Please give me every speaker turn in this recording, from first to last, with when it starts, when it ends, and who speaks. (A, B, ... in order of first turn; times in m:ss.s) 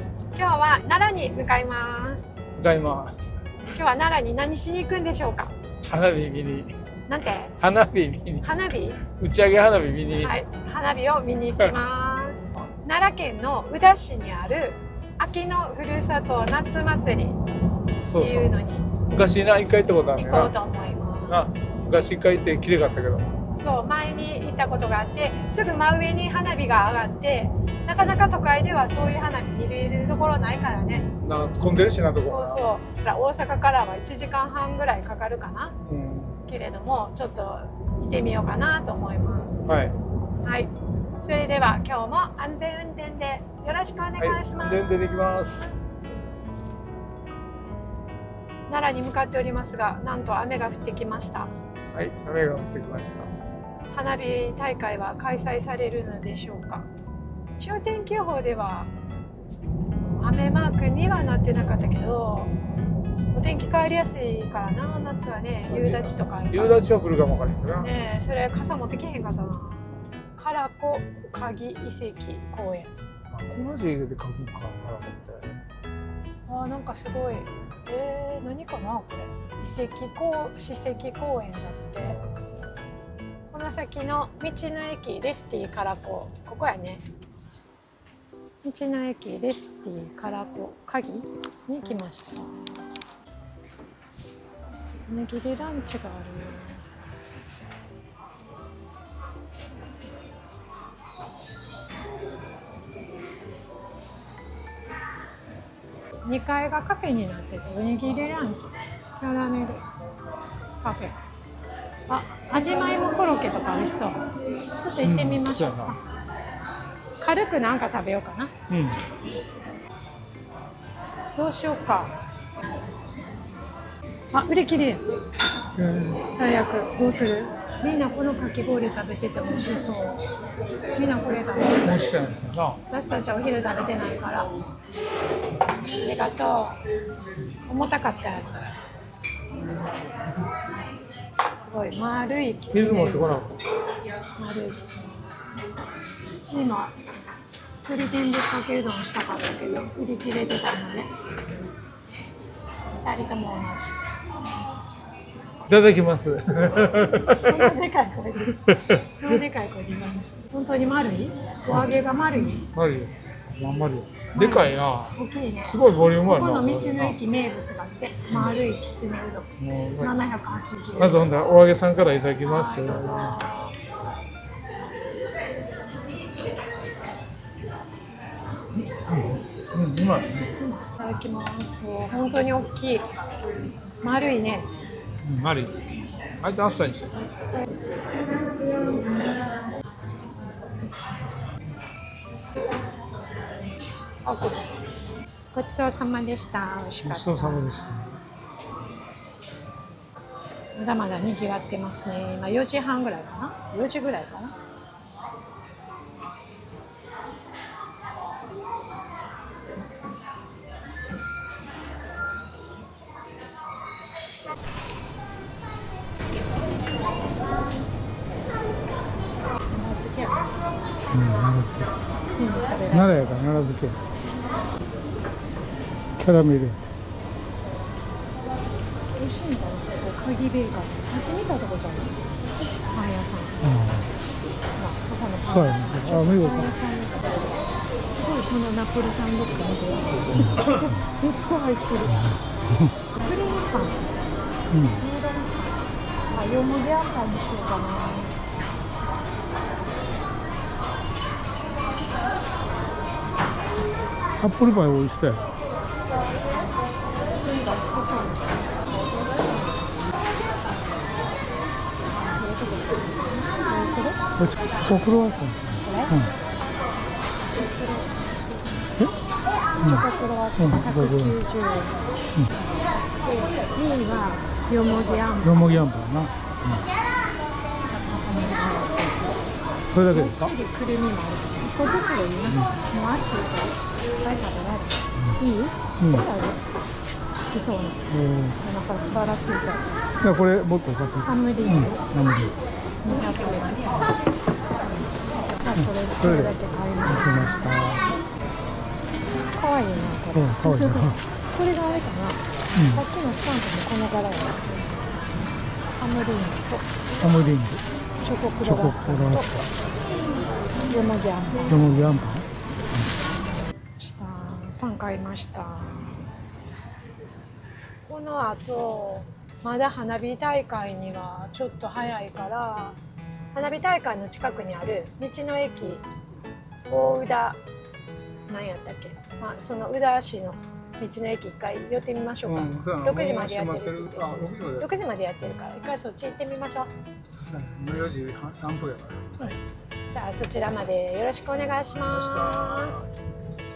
0:00.3-0:02.4 A
0:02.6-0:03.2 B
0:03.7-0:05.6 A
0:05.8-0:06.8 B
0:07.1-0:07.6 A
0:07.6-0:08.5 B
0:08.4-0:09.0 A
0:09.0-0:10.4 B
0:10.2-0:17.4 A
0:18.0-0:20.5 B
0:18.2-0:19.0 A
0:20.2-0:21.5 A
0:21.3-0:23.3 B
0:23.5-0:31.1 A
0:31.1-0:32.6 B
0:32.2-0:35.8 A
0:35.8-0:36.4 B
0:36.4-0:39.7 A
0:39.7-0:40.0 B
0:40.4-0:44.9 A
0:44.2-0:45.7 B
0:48.7-0:51.5 A
0:51.9-0:53.3 B
0:53.9-0:56.9 A
0:57.6-0:58.9 A
1:00.2-1:02.5 A
1:03.3-1:06.8 A
1:05.7-1:07.9 B
1:07.8-1:12.9 A
1:13.3-1:15.6 B
1:16.5-1:22.2 A
1:23.5-1:27.0 A
1:28.6-1:32.6 A
1:35.1-1:36.9 A
1:46.2-1:49.8 A
1:50.8-1:51.2 A
1:52.1-1:56.0 A
1:55.0-1:56.0 B
1:57.2-1:58.6 A
1:58.7-1:59.0 B
2:01.4-2:02.2 A
2:04.3-2:05.1 A
2:05.8-2:06.2 B
2:06.3-2:10.2 A
2:10.9-2:12.1 A
2:11.8-2:12.8 B
2:12.9-2:14.5 A
2:15.9-2:16.8 A
2:17.7-2:18.6 A
2:21.5-2:23.5 A
2:22.7-2:23.6 B
2:24.4-2:25.4 A
2:26.3-2:27.0 A
2:27.8-2:31.1 A
2:33.0-2:34.1 A
2:35.6-2:37.7 B
2:37.2-2:42.7 A
2:38.5-2:39.1 B
2:42.7-2:47.2 B
2:44.3-2:51.3 A
2:48.3-2:48.6 B
2:49.6-2:50.1 B
2:51.0-2:53.4 B
2:52.4-2:53.8 A
2:58.9-3:00.6 B
3:00.8-3:03.1 A
3:04.0-3:04.7 A
3:05.2-3:05.8 B
3:06.4-3:07.3 B
3:08.6-3:09.0 A
3:14.2-3:14.7 A
3:15.5-3:17.8 A
3:17.0-3:18.2 B
3:20.8-3:24.6 A
3:39.7-3:40.6 A
3:41.1-3:42.0 B
3:42.4-3:43.1 A
3:42.9-3:44.1 B
3:46.2-3:46.8 B
3:49.1-3:52.2 A
3:52.9-3:53.7 A
3:53.6-3:54.1 B
3:54.8-4:02.4 A
3:55.5-3:56.8 B
4:00.3-4:01.0 B
4:02.1-4:03.0 B
4:03.2-4:04.0 A
4:04.7-4:05.0 B
4:05.0-4:08.4 A
4:14.4-4:15.4 B
4:17.4-4:19.5 A
4:22.1-4:24.2 A
4:24.4-4:26.3 B
4:25.8-4:26.2 A
4:27.5-4:28.9 A
4:29.8-4:31.4 B
4:29.8-4:32.0 A
4:33.1-4:35.8 A
4:35.4-4:36.9 B
4:38.0-4:39.4 A
4:39.9-4:40.5 B
4:40.1-4:46.6 A
4:42.5-4:42.8 B
4:46.0-4:46.3 B
4:47.4-4:48.1 A
4:48.1-4:48.6 B
4:48.6-4:49.9 A
4:50.2-4:52.6 B
4:51.2-4:52.1 A
4:53.0-4:54.2 A
4:55.6-4:57.9 A
4:55.8-4:58.1 B
4:59.5-5:04.8 A
5:00.3-5:01.2 B
5:02.8-5:03.0 B
5:06.0-5:06.9 A
5:07.2-5:07.8 B
5:08.2-5:09.7 A
5:08.6-5:09.7 B
5:10.9-5:11.8 A
5:11.7-5:13.1 B
5:14.0-5:16.2 A
5:18.1-5:23.0 A
5:23.5-5:26.0 A
5:26.9-5:27.6 A
5:28.5-5:36.9 A
5:32.4-5:35.0 B
5:37.4-5:39.6 B
5:40.1-5:43.1 A
5:42.0-5:43.2 B